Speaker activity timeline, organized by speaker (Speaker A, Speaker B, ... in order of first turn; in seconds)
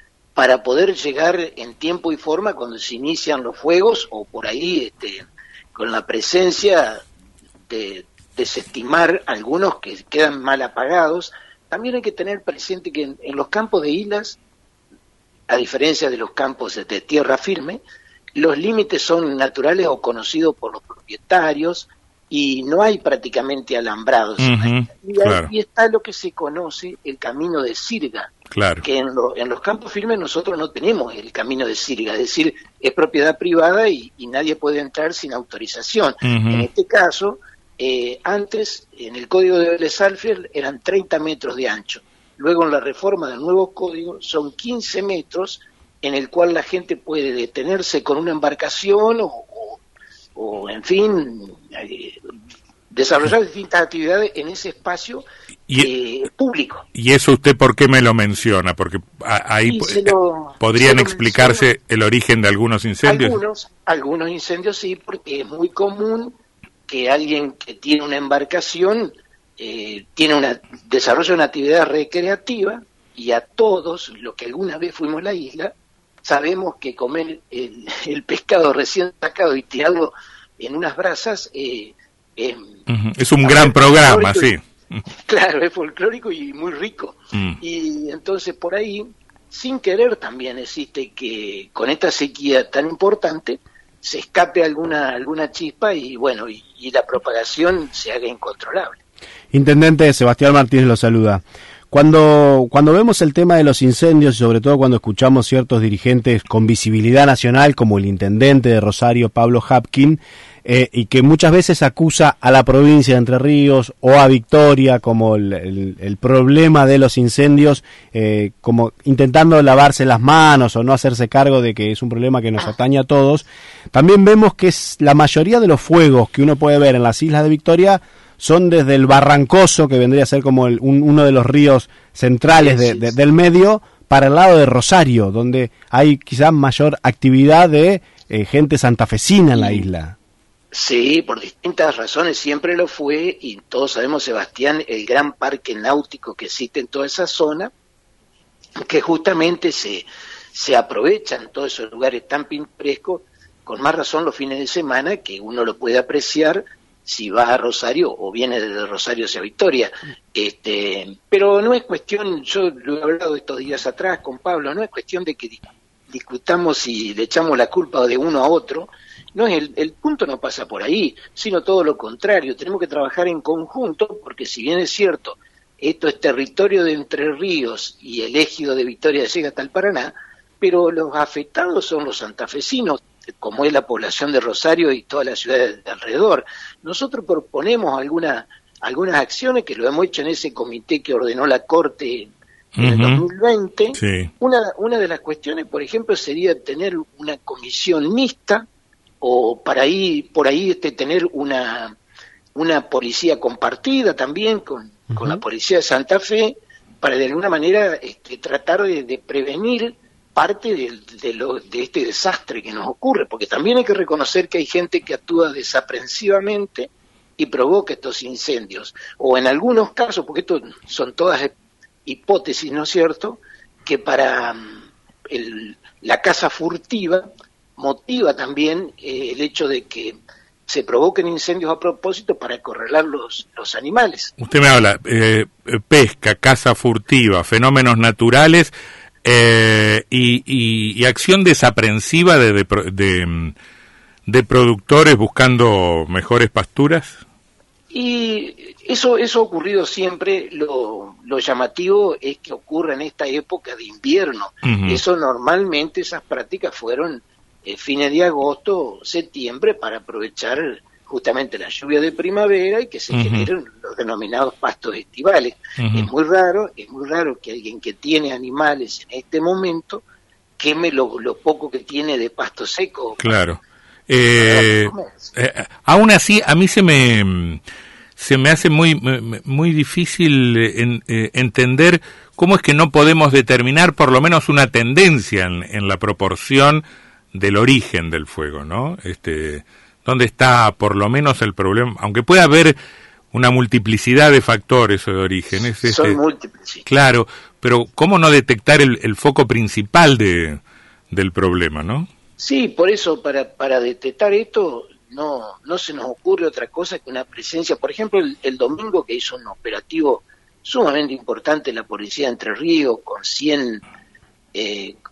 Speaker A: 0.3-7.0, 7.7-14.4, 15.5-17.8, 18.4-49.8, 50.4-52.2, 52.9-55.2, 55.8-56.9, 59.6-61.7, 63.0-66.3, 66.9-75.7, 76.2-82.7, 83.4-84.5, 85.2-99.0, 132.6-133.1, 139.5-139.8, 140.7-147.7, 148.8-198.6, 199.2-201.9, 202.5-221.5, 222.1-224.8, 225.3-227.2, 227.8-230.2, 230.7-234.3, 247.9-270.0, 270.6-273.4, 274.4-275.3, 295.8-296.8, 302.4-313.8, 314.5-314.9
Speaker B: 24.4-25.5, 28.5-28.8, 36.2-36.7, 56.9-63.4, 82.9-85.0, 87.3-87.6, 192.8-193.2, 194.0-194.3, 234.4-238.7, 239.2-243.5, 244.3-247.2, 254.6-255.0, 263.1-263.5, 265.8-266.1, 273.2-277.6, 278.2-286.8, 287.3-292.8, 293.3-296.2, 296.9-300.6, 301.1-302.1
Speaker C: 99.5-140.1